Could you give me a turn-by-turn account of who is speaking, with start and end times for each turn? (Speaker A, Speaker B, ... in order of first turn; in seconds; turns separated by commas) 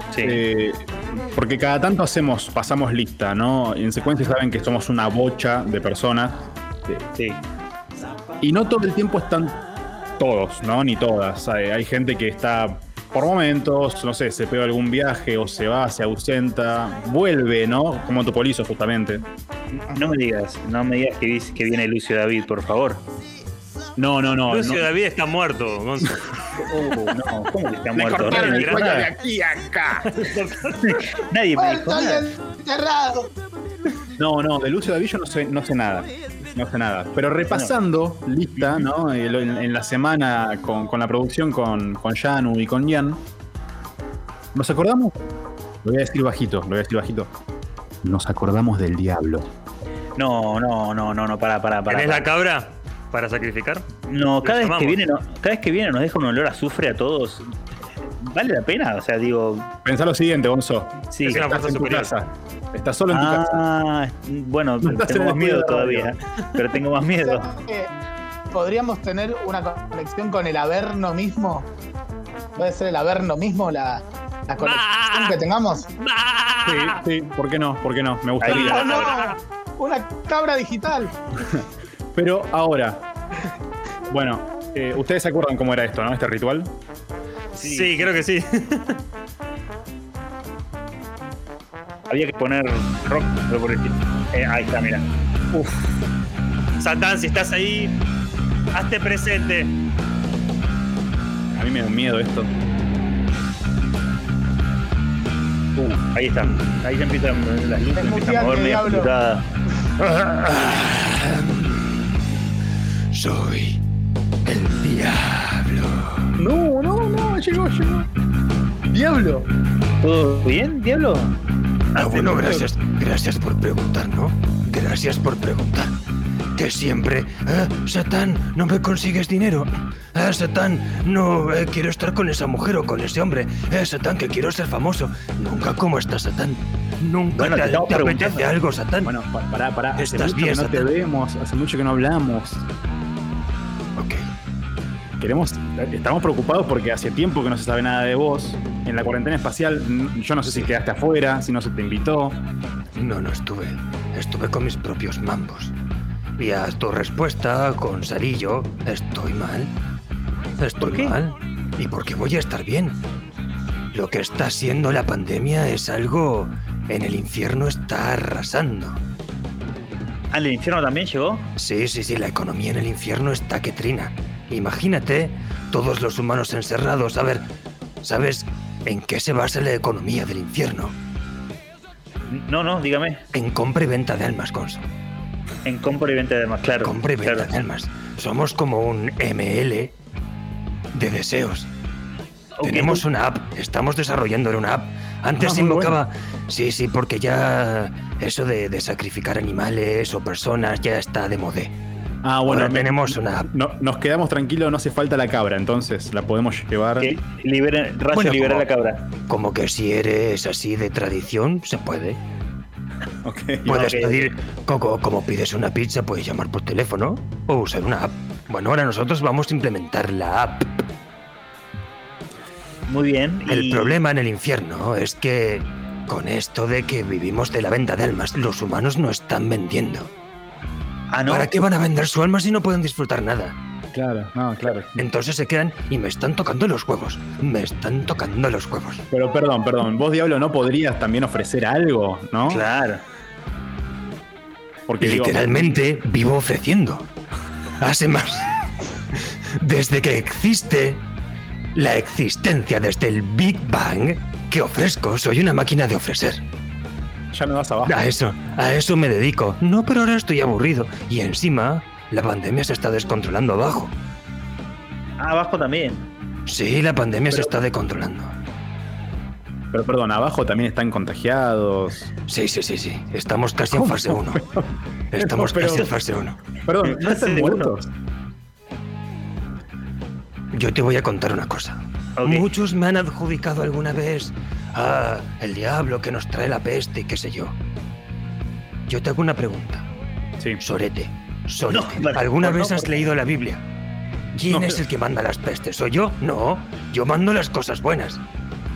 Speaker A: 0.1-0.4, Speaker B: 0.2-7.0, Speaker A: 7.1-7.4, Speaker B: 8.4-9.6, Speaker B: 10.2-19.2, Speaker A: 19.9-23.0, Speaker B: 24.0-24.9, Speaker C: 24.5-26.2, Speaker B: 26.0-27.1, Speaker A: 26.7-29.1, Speaker B: 27.9-30.1, Speaker D: 28.2-29.4, Speaker C: 28.4-28.9, Speaker C: 30.1-30.8, Speaker A: 30.8-32.2, Speaker D: 31.6-33.3, Speaker B: 34.2-43.2, Speaker B: 44.5-45.2, Speaker B: 45.8-47.3, Speaker B: 48.0-49.5, Speaker A: 50.1-52.3, Speaker C: 51.9-53.9, Speaker A: 54.0-57.5, Speaker C: 54.4-55.0, Speaker A: 58.2-59.7, Speaker B: 59.8-63.7, Speaker A: 61.1-62.0, Speaker C: 61.2-62.1, Speaker A: 63.1-67.5, Speaker B: 64.8-66.1, Speaker D: 67.1-67.9, Speaker D: 68.5-71.7, Speaker D: 72.5-75.9, Speaker C: 76.2-76.8, Speaker B: 76.5-79.0, Speaker A: 78.4-79.3, Speaker D: 78.6-81.1, Speaker C: 78.8-79.3, Speaker B: 81.4-83.0, Speaker B: 84.1-86.7, Speaker A: 87.5-88.1, Speaker C: 87.6-88.4, Speaker E: 87.9-88.8, Speaker A: 92.1-96.0, Speaker A: 96.8-97.6, Speaker E: 96.9-97.9, Speaker A: 98.7-99.5, Speaker E: 98.9-99.7, Speaker B: 101.5-102.5, Speaker A: 105.8-109.5, Speaker C: 106.5-106.8, Speaker D: 107.9-109.1, Speaker C: 110.0-112.2, Speaker C: 113.1-113.8, Speaker C: 114.5-116.3, Speaker B: 116.4-118.1, Speaker B: 118.9-119.5, Speaker A: 120.0-121.4, Speaker A: 121.9-122.6, Speaker C: 122.0-125.9, Speaker C: 126.5-139.1, Speaker A: 137.3-138.4, Speaker B: 139.0-142.7, Speaker C: 140.0-140.9, Speaker B: 145.2-152.4, Speaker C: 150.4-150.7, Speaker C: 152.9-155.7, Speaker C: 156.4-159.7, Speaker C: 160.6-162.9, Speaker A: 160.8-161.1, Speaker C: 163.9-169.0, Speaker A: 170.3-171.4, Speaker C: 171.6-177.4, Speaker C: 178.0-180.9, Speaker A: 182.3-183.2, Speaker C: 183.3-184.8, Speaker A: 185.6-187.5, Speaker C: 186.8-189.9, Speaker C: 190.9-191.7, Speaker A: 192.6-193.0, Speaker C: 192.6-201.7, Speaker B: 195.4-196.0, Speaker B: 202.2-207.1, Speaker C: 202.4-203.5, Speaker A: 207.0-209.1, Speaker C: 208.1-208.7, Speaker C: 209.2-212.2, Speaker B: 213.2-213.9, Speaker A: 213.7-214.3, Speaker C: 213.7-220.8, Speaker A: 222.9-223.9, Speaker C: 223.5-230.1, Speaker A: 231.1-231.5, Speaker C: 231.3-233.6, Speaker B: 233.9-235.1, Speaker C: 234.9-239.0, Speaker B: 239.1-242.7, Speaker A: 242.5-243.0, Speaker B: 244.9-245.5, Speaker C: 245.0-247.1, Speaker C: 247.8-248.5, Speaker C: 249.2-251.0, Speaker C: 251.7-256.4, Speaker B: 257.3-258.1, Speaker C: 257.9-263.9, Speaker A: 265.2-266.1, Speaker C: 266.5-268.3, Speaker B: 267.3-267.6, Speaker B: 269.7-272.1, Speaker C: 272.3-274.4, Speaker B: 273.7-275.9, Speaker C: 275.1-276.4, Speaker B: 276.6-277.9, Speaker A: 276.8-277.7, Speaker C: 280.5-287.5, Speaker A: 282.2-282.5, Speaker C: 288.9-289.8, Speaker C: 290.6-293.6, Speaker A: 291.7-292.9, Speaker C: 294.4-298.2, Speaker B: 294.4-294.8